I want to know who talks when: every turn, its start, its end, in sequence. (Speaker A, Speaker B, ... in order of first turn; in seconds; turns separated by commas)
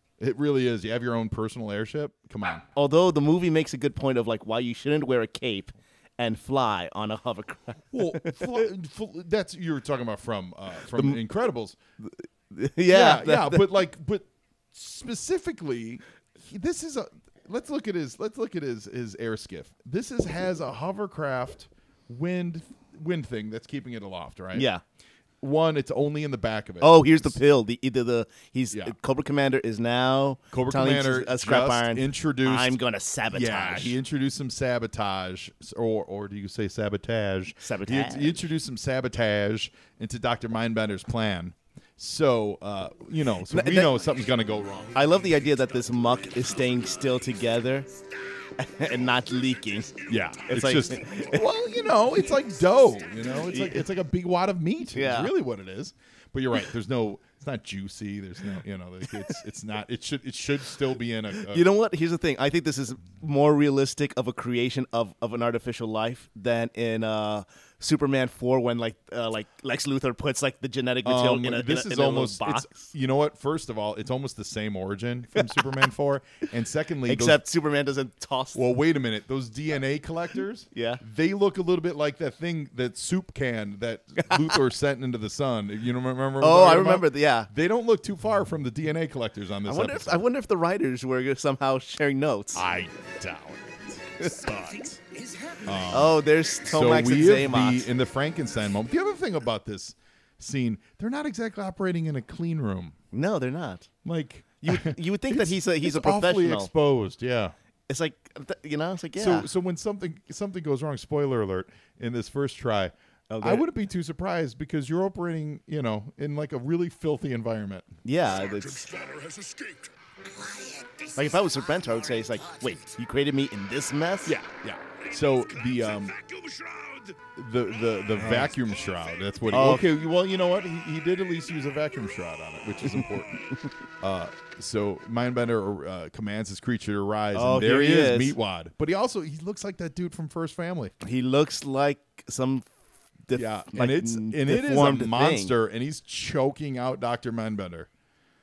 Speaker A: 0.2-2.6, Speaker B: 2.7-8.6, Speaker A: 7.9-11.8, Speaker B: 10.9-11.2, Speaker B: 12.0-13.7, Speaker A: 12.9-24.7, Speaker B: 24.5-24.8, Speaker A: 25.4-27.4, Speaker B: 26.8-34.0, Speaker A: 30.5-32.8, Speaker A: 33.3-45.0, Speaker B: 37.6-38.4, Speaker B: 43.5-43.9, Speaker B: 44.9-47.9, Speaker B: 48.6-51.5, Speaker A: 50.0-61.6, Speaker B: 53.5-53.9, Speaker B: 54.9-55.3, Speaker B: 61.4-72.9, Speaker A: 71.0-77.4, Speaker B: 77.0-78.6, Speaker A: 78.5-90.3, Speaker B: 80.7-81.0, Speaker B: 86.4-87.5, Speaker B: 89.7-92.6, Speaker A: 92.5-94.5, Speaker B: 94.2-95.0, Speaker C: 95.0-95.7, Speaker A: 95.6-103.0, Speaker B: 95.9-97.9, Speaker B: 103.1-103.9, Speaker A: 104.0-107.5, Speaker B: 104.6-106.7, Speaker B: 107.9-109.5, Speaker A: 109.1-117.9, Speaker B: 113.3-113.7, Speaker B: 118.0-118.9, Speaker C: 118.3-121.5, Speaker B: 121.1-124.4, Speaker C: 122.4-122.9, Speaker A: 124.2-126.2, Speaker C: 125.5-127.2, Speaker A: 127.3-133.5, Speaker B: 128.1-128.5, Speaker B: 129.5-129.9, Speaker B: 132.8-133.7, Speaker A: 134.0-140.9, Speaker B: 137.3-138.4, Speaker B: 141.0-142.7, Speaker B: 143.2-145.5, Speaker A: 143.3-147.9